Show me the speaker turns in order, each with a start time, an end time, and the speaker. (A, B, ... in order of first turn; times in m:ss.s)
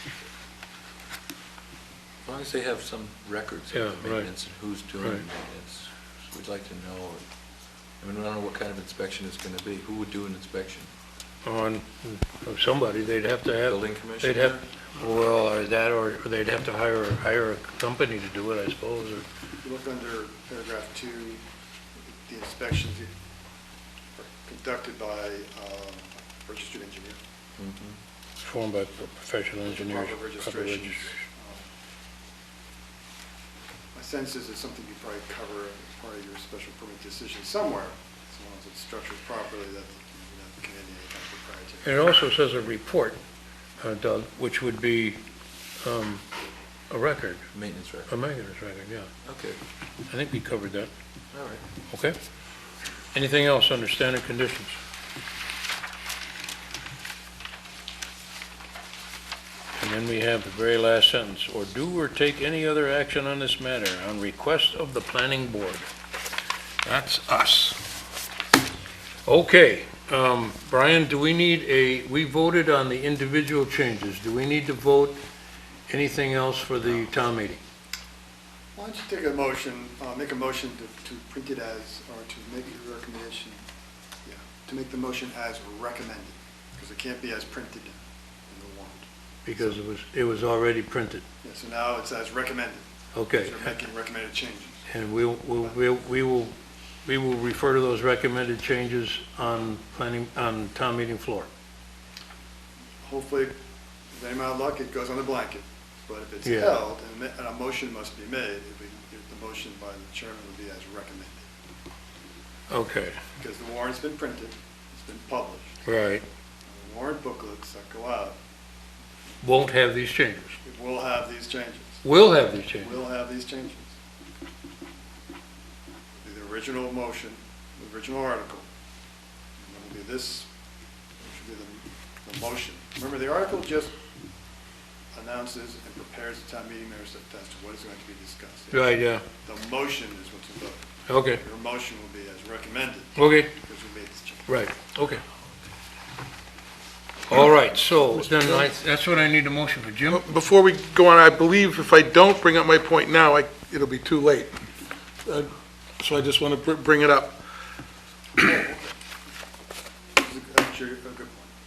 0:02.2-0:07.2 A
0:03.7-0:04.3 B
0:08.0-0:10.9 A
0:11.4-0:19.2 B
0:13.7-0:14.6 A
0:19.6-0:21.4 C
0:22.3-0:23.1 C
0:24.2-0:27.2 C
0:27.6-0:28.0 A
0:28.4-0:31.1 B
0:29.7-0:31.7 C
0:33.9-0:42.0 C
0:41.8-0:43.2 B
0:43.8-0:45.2 B
0:45.8-0:46.2 B
0:46.9-0:47.5 B
0:47.5-0:48.1 A
0:48.1-0:49.1 B
0:49.2-0:49.6 A
0:50.1-0:50.9 B
0:51.3-0:51.7 A
0:51.9-0:52.2 B
0:53.1-0:54.8 B
0:59.8-1:05.9 B
1:06.8-1:07.8 B
1:09.2-1:15.2 B
1:15.9-1:17.6 B
1:18.8-1:23.6 C
1:24.2-1:29.8 C
1:29.5-1:31.2 B
1:31.4-1:34.8 C
1:33.1-1:33.7 B
1:34.9-1:41.5 B
1:43.0-1:43.6 C
1:44.1-1:51.5 C
1:46.4-1:46.8 B
1:52.7-1:53.2 B
1:53.4-1:55.7 C
1:55.9-1:56.2 B
1:56.7-1:58.4 C
1:59.4-2:00.6 B
2:00.6-2:02.0 C
2:02.0-2:02.9 B
2:02.8-2:04.0 C
2:06.2-2:08.7 C
2:09.6-2:10.5 C
2:11.2-2:13.9 C
2:15.1-2:24.6 C
2:18.7-2:19.2 B
2:21.1-2:21.4 B
2:23.2-2:23.5 B
2:24.5-2:25.2 B
2:27.3-2:30.2 B
2:28.4-2:28.7 D
2:30.1-2:34.6 D
2:35.3-2:37.4 D
2:38.4-2:38.9 C
2:40.2-2:41.5 C